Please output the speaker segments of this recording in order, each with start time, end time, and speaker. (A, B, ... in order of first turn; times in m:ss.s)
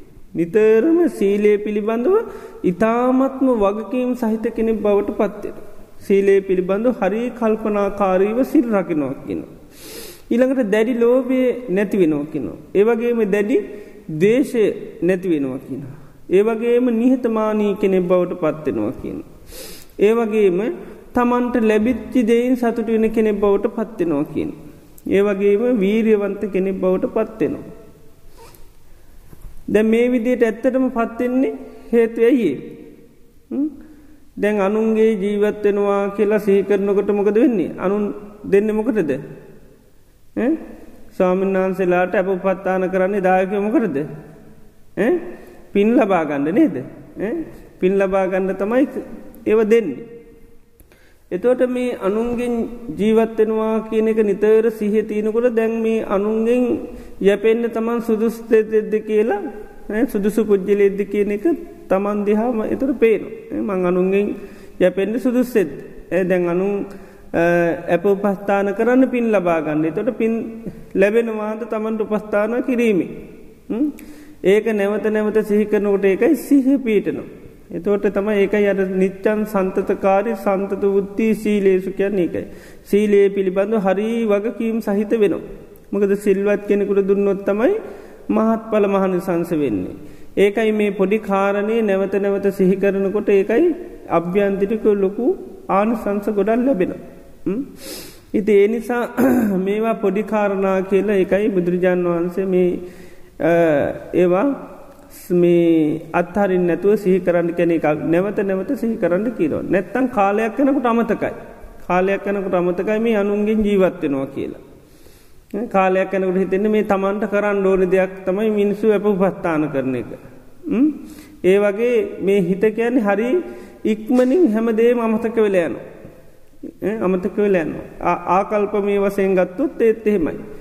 0:00.4-0:09.5 A
0:10.3-0:13.6 A
0:14.1-0:19.3 A
0:20.0-0:24.6 A
0:25.1-0:27.6 A
0:29.7-0:32.7 A
0:34.4-0:39.2 A
0:41.1-0:44.1 A
0:45.0-0:50.0 A
0:51.3-1:06.8 A
1:07.3-1:13.1 A
1:13.7-1:13.9 A
1:14.5-1:27.8 A
1:28.3-1:42.8 A
1:43.4-1:44.5 A
1:45.1-1:54.6 A
1:55.5-2:05.8 A
2:06.8-2:10.4 A